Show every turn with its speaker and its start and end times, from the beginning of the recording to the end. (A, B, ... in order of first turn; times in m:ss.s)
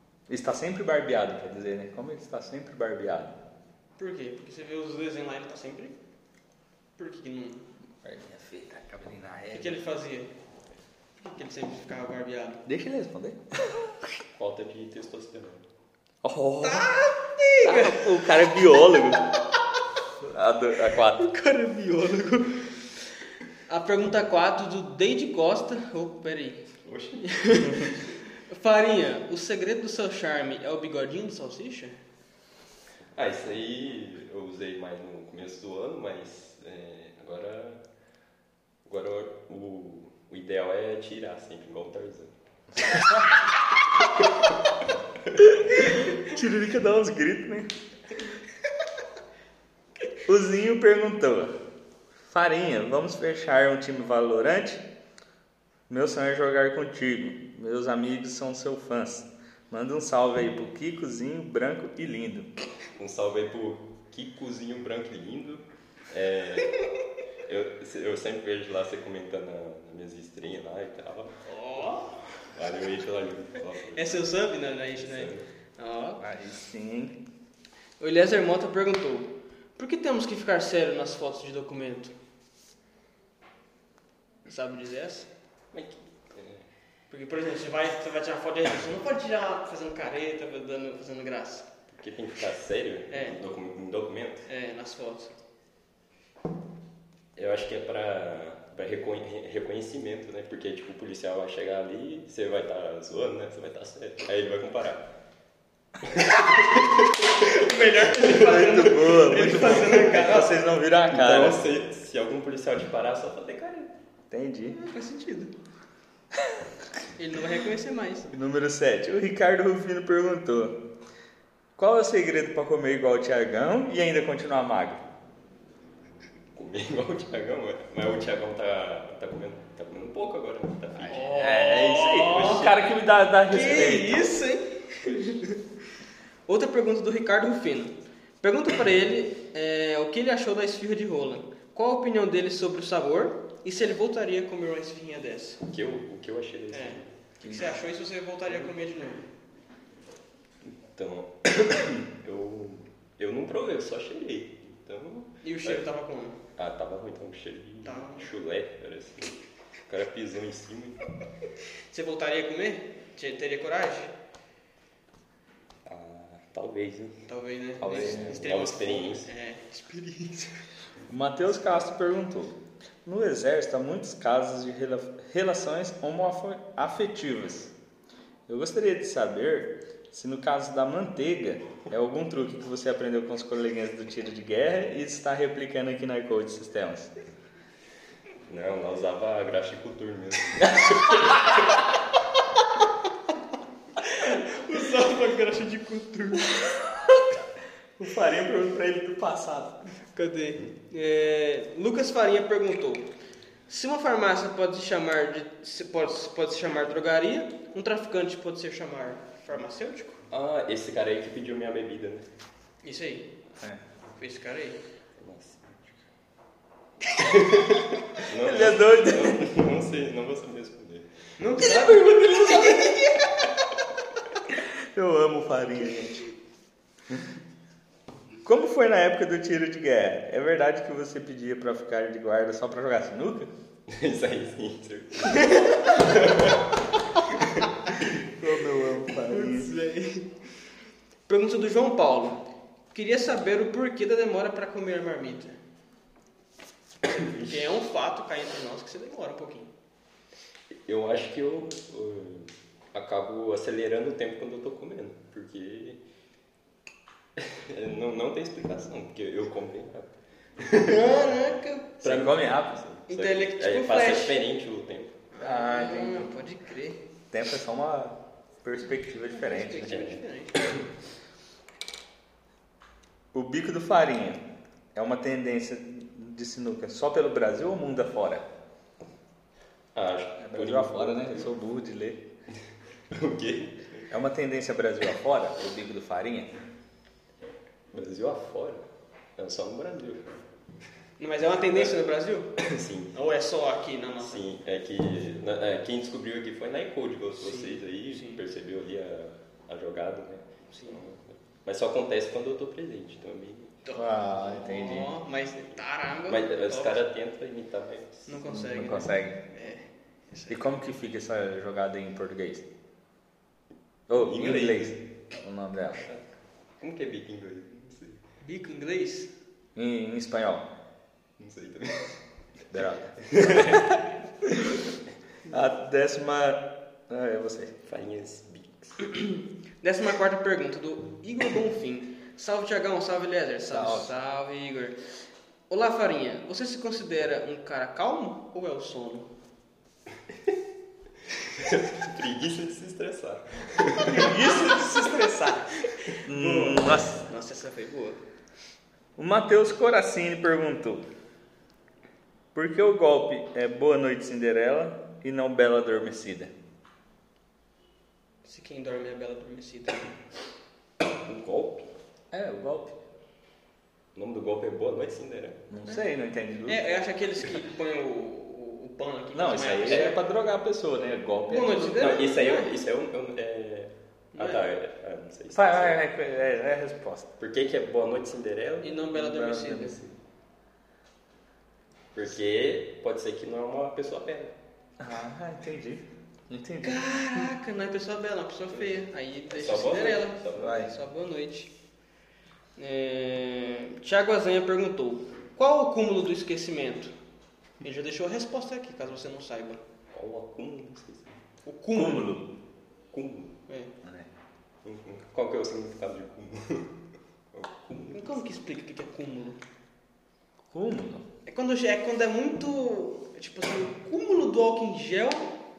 0:00.3-0:03.4 A
0:04.0-0:06.0 B
0:07.0-0:07.6 B
0:08.0-0:09.8 A
0:09.5-0:10.3 B
0:11.2-0:12.6 B
0:12.6-0:14.0 A
0:14.4-0:15.6 C
0:16.2-0:16.9 A
0:16.6-0:18.2 B
0:17.6-0:19.2 A
0:20.2-0:21.3 A
0:21.2-0:23.0 B
0:23.7-0:26.6 B
0:26.8-0:27.9 C
0:27.3-0:32.0 B
0:33.1-0:37.8 C
0:38.8-0:42.3 C
0:45.4-0:47.7 A
0:50.2-0:51.5 A
0:52.3-0:54.8 A
0:55.9-1:02.5 A
1:03.0-1:06.8 C
1:07.4-1:11.3 C
1:11.4-1:12.2 B
1:12.5-1:14.4 C
1:13.9-1:16.3 B
1:15.0-1:15.4 C
1:16.2-1:17.2 A
1:18.0-1:22.1 B
1:24.4-1:25.3 B
1:25.7-1:26.6 C
1:27.1-1:31.7 B
1:31.9-1:34.4 C
1:33.1-1:33.4 B
1:34.4-1:35.3 B
1:37.4-1:45.1 C
1:46.0-1:47.3 C
1:47.3-1:50.6 B
1:48.3-1:51.6 A
1:51.1-1:53.9 C
1:54.3-1:54.8 A
1:54.7-1:55.5 B
1:57.2-1:58.3 B
1:58.3-2:00.8 A
2:01.8-2:05.0 A
2:06.5-2:11.3 C
2:11.0-2:12.8 B
2:11.3-2:14.3 A
2:13.5-2:15.6 B
2:16.5-2:25.6 B
2:25.6-2:27.1 C
2:26.7-2:29.2 B
2:27.4-2:27.8 A
2:30.8-2:35.8 C
2:35.4-2:36.4 B
2:36.6-2:39.4 C
2:37.8-2:38.3 B
2:39.9-2:41.0 C
2:41.9-2:44.1 B
2:45.8-2:47.2 C
2:47.3-2:50.5 B
2:47.8-2:48.4 A
2:47.8-2:49.3 C
2:51.1-2:57.7 A
2:58.5-3:07.1 A
3:08.4-3:11.8 C
3:14.0-3:16.5 B
3:18.0-3:19.8 A
3:20.1-3:23.1 B
3:23.7-3:30.2 B
3:30.3-3:32.2 C
3:32.8-3:33.3 B
3:34.2-3:34.8 B
3:35.2-3:35.9 C
3:37.1-3:41.1 C
3:38.4-3:39.4 A
3:41.4-3:43.3 B
3:41.6-3:43.0 A
3:44.5-3:46.3 A
3:48.4-3:53.5 A
3:53.9-3:56.7 C
3:55.3-3:55.9 B
3:58.3-3:59.7 A
3:59.2-4:00.3 B
4:01.3-4:05.6 B
4:07.2-4:07.8 C
4:07.4-4:09.7 B
4:10.9-4:16.0 C
4:17.4-4:20.9 C
4:20.8-4:22.0 B
4:22.0-4:22.8 A
4:22.0-4:25.2 C
4:23.1-4:24.4 B
4:25.3-4:27.0 B
4:25.4-4:26.3 A
4:27.3-4:30.0 A
4:29.3-4:30.5 B
4:29.8-4:30.8 C
4:33.3-4:34.4 A
4:34.9-4:38.4 A
4:39.9-4:41.5 C
4:40.4-4:42.2 A
4:43.1-4:44.0 C
4:44.1-4:46.5 A
4:47.9-4:48.8 C
4:49.4-4:50.3 C
4:51.2-4:52.5 B
4:52.6-4:53.1 C
4:53.1-4:54.4 B
4:54.2-5:03.8 C
4:57.4-4:58.4 B
5:00.7-5:01.0 B
5:03.8-5:07.0 B
5:03.9-5:05.1 A
5:06.3-5:08.5 C
5:08.3-5:10.7 B
5:08.5-5:09.4 A
5:10.5-5:12.7 A
5:14.1-5:16.0 A
5:14.1-5:15.0 C
5:16.0-5:16.2 C
5:16.8-5:18.2 C
5:18.4-5:19.3 B
5:19.8-5:20.7 A
5:21.4-5:22.2 C
5:22.7-5:24.7 A
5:23.3-5:23.8 C
5:25.4-5:27.8 A
5:27.8-5:29.2 C
5:29.8-5:35.0 B
5:33.7-5:34.1 A
5:35.7-5:39.3 B
5:41.6-5:44.5 C
5:44.0-5:45.4 A
5:44.1-5:48.2 B
5:46.2-5:47.2 A
5:49.2-5:51.0 A
5:52.5-5:56.5 A
5:58.4-6:00.1 B
6:01.2-6:01.9 C
6:02.3-6:03.0 A
6:04.1-6:05.6 C
6:05.7-6:06.9 A
6:06.6-6:10.2 B
6:09.3-6:12.2 A
6:09.8-6:10.1 C
6:11.5-6:12.7 B
6:11.9-6:16.0 C
6:14.3-6:14.6 B
6:15.5-6:17.3 A
6:17.4-6:19.0 C
6:18.8-6:20.0 B
6:19.1-6:20.0 A
6:22.1-6:24.5 C
6:25.0-6:27.0 A
6:26.8-6:31.7 B
6:29.5-6:30.8 C
6:30.6-6:30.9 A
6:32.8-6:37.1 B
6:37.8-6:39.8 B
6:40.1-6:41.4 C
6:41.6-6:42.4 B
6:41.9-6:42.5 A
6:43.1-6:43.6 C
6:44.0-6:44.3 A
6:44.8-6:46.9 C
6:47.5-6:48.5 C
6:48.1-6:49.6 B
6:50.7-6:51.2 A
6:51.4-6:55.5 B